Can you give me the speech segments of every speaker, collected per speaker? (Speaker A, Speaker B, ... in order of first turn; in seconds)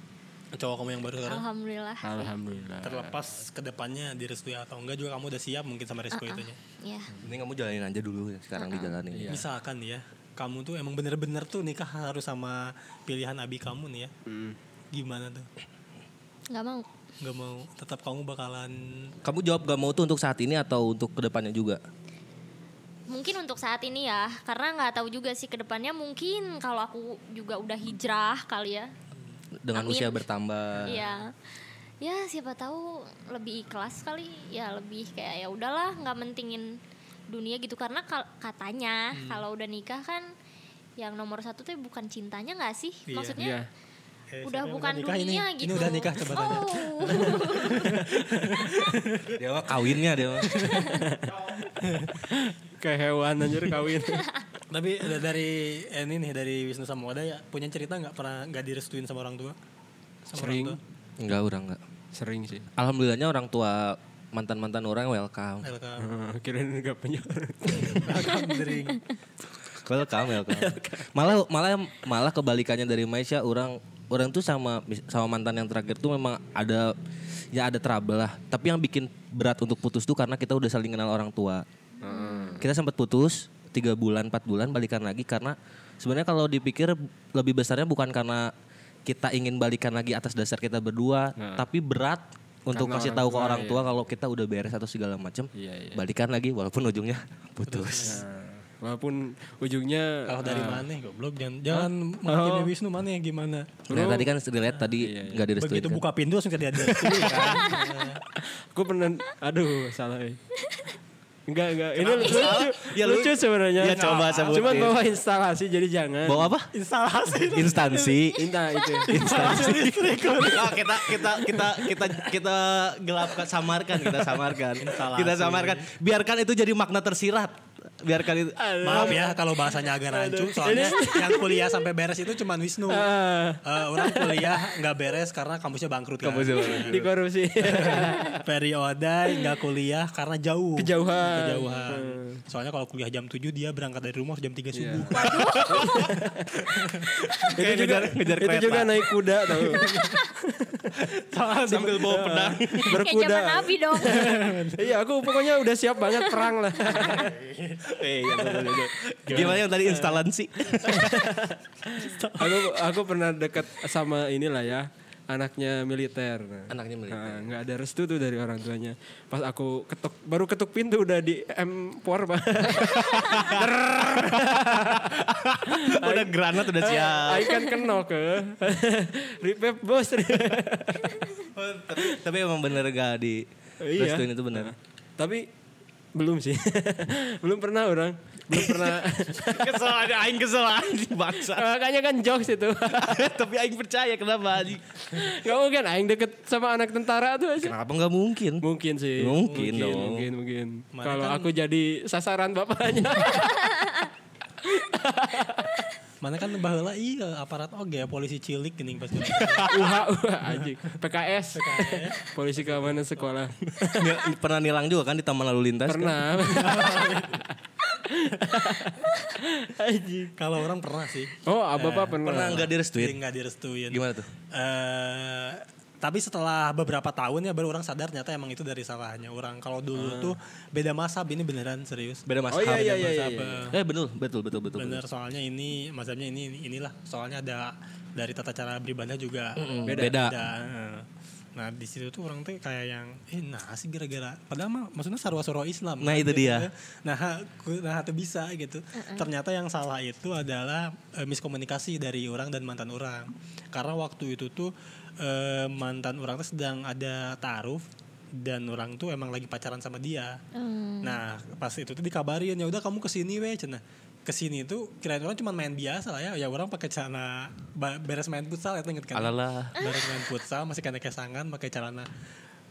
Speaker A: 0.5-1.4, 2.8-6.6, 9.3-14.1, 14.9-15.5, 17.2-19.1, 39.1-39.4, 43.1-43.4, 44.3-49.4, 50.4-51.0, 51.8-52.2, 54.7-59.6, 60.3-60.8, 65.6-66.2, 67.9-69.1, 97.7-98.2, 100.3-103.9, 105.6-108.2, 113.8-115.0, 116.7-118.4, 119.1-122.1, 124.8-125.9, 128.8-137.0, 137.6-147.5, 149.5-150.2, 151.1-152.8, 154.0-155.0, 156.9-158.0, 159.3-159.7, 161.9-162.8, 200.9-201.5, 206.2-209.9, 211.5-213.3, 216.5-217.4, 220.4-232.3, 233.0-233.8, 234.8-260.4, 261.0-272.1
Speaker B: 1.3-2.3, 6.1-7.1, 8.6-8.9, 16.5-16.9, 23.1-28.9, 29.8-30.2, 30.9-31.3, 32.0-40.3, 41.0-43.6, 44.4-48.0, 50.6-51.1, 82.0-82.7, 145.1-146.1, 150.0-150.3, 152.9-154.3, 248.9-249.3, 260.5-261.2, 269.8-270.1
Speaker C: 2.0-3.2, 9.1-9.4, 14.3-14.6, 43.4-43.7, 48.1-48.6, 50.9-51.7, 52.2-54.3, 60.4-60.8, 62.1-62.7, 66.0-68.4, 70.2-71.2, 82.0-82.6, 91.4-91.7, 92.7-94.0, 95.6-96.0, 98.1-100.9, 101.7-102.7, 103.9-104.3, 105.0-105.5, 106.9-110.4, 111.5-116.5, 118.4-120.5, 128.6-131.8, 132.9-134.8, 136.5-138.4, 140.8-142.4, 144.7-146.4, 147.6-151.0, 152.1-157.4, 159.3-160.2, 160.8-175.2, 175.7-181.4, 183.8-185.5, 186.1-189.7, 191.4-193.1, 195.1-197.7, 198.6-204.0, 204.6-205.9, 209.7-214.2, 215.9-217.5, 218.1-220.3, 221.4-222.7, 229.9-230.3, 232.5-233.7, 239.9-240.2
Speaker D: 7.2-9.4, 19.2-21.8, 29.6-31.1, 49.4-50.7, 61.2-61.8, 62.8-65.7, 69.8-77.0, 77.5-81.7, 82.6-88.5, 89.1-98.2, 103.9-106.0, 112.0-115.0, 116.2-116.7, 117.5-118.5, 119.1-129.1, 136.2-137.1, 145.3-146.0, 146.7-149.1, 151.6-152.9, 157.8-161.3, 166.7-167.5, 172.8-177.6, 181.5-184.7, 188.5-191.7, 192.9-195.1, 197.6-198.6, 199.2-200.3, 214.0-216.2, 222.2-223.2, 223.9-224.3, 232.3-235.0, 239.6-240.4, 246.0-246.7, 269.1-269.8